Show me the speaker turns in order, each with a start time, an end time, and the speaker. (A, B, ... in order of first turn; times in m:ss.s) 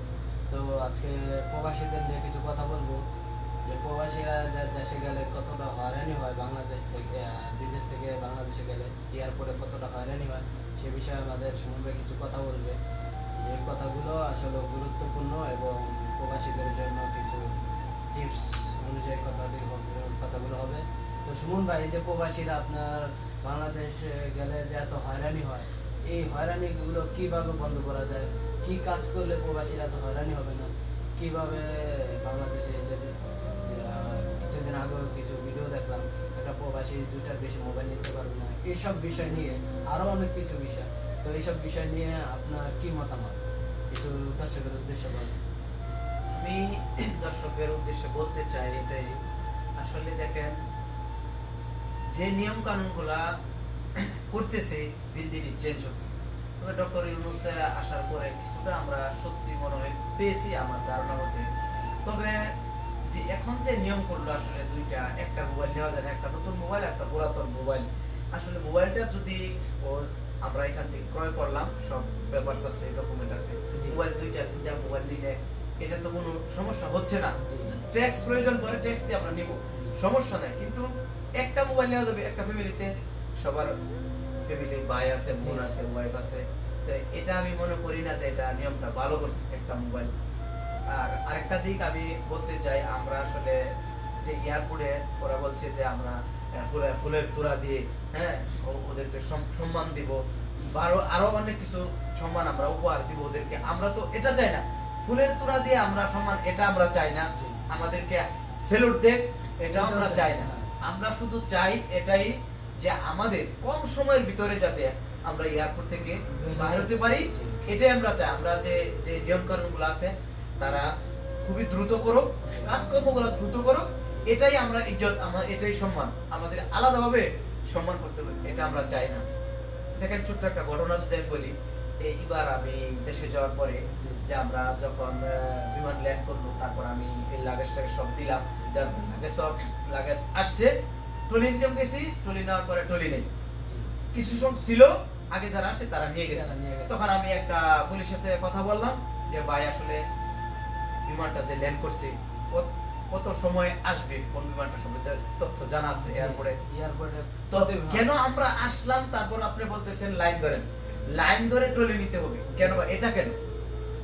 0:00.5-0:03.0 A
0:03.6-0:12.8 A
0:13.4-0:17.5 A
0:18.1-0:43.4 A
0:43.9-0:45.4 A
0:46.3-0:49.2 B
0:49.8-0:50.5 B
0:52.1-0:53.2 B
0:54.0-1:01.4 B
1:02.0-1:02.4 B
1:03.1-1:20.9 B
1:13.7-1:14.0 A
1:17.4-1:17.8 A
1:21.4-1:22.9 B
1:23.4-1:23.7 B
1:24.4-1:30.1 B
1:25.4-1:25.7 A
1:30.9-1:33.6 B
1:34.2-2:00.9 B
1:47.4-1:47.6 A
1:49.7-1:50.7 A
1:56.3-1:57.6 A
2:01.4-2:09.3 B
2:02.4-2:02.8 A
2:10.0-2:20.7 B
2:14.0-2:14.3 A
2:21.3-2:23.3 B
2:23.6-2:23.9 A
2:24.1-2:30.0 B
2:26.3-2:27.0 A
2:31.1-2:36.6 B
2:36.0-2:38.1 A
2:37.5-2:43.4 B
2:42.5-2:42.8 A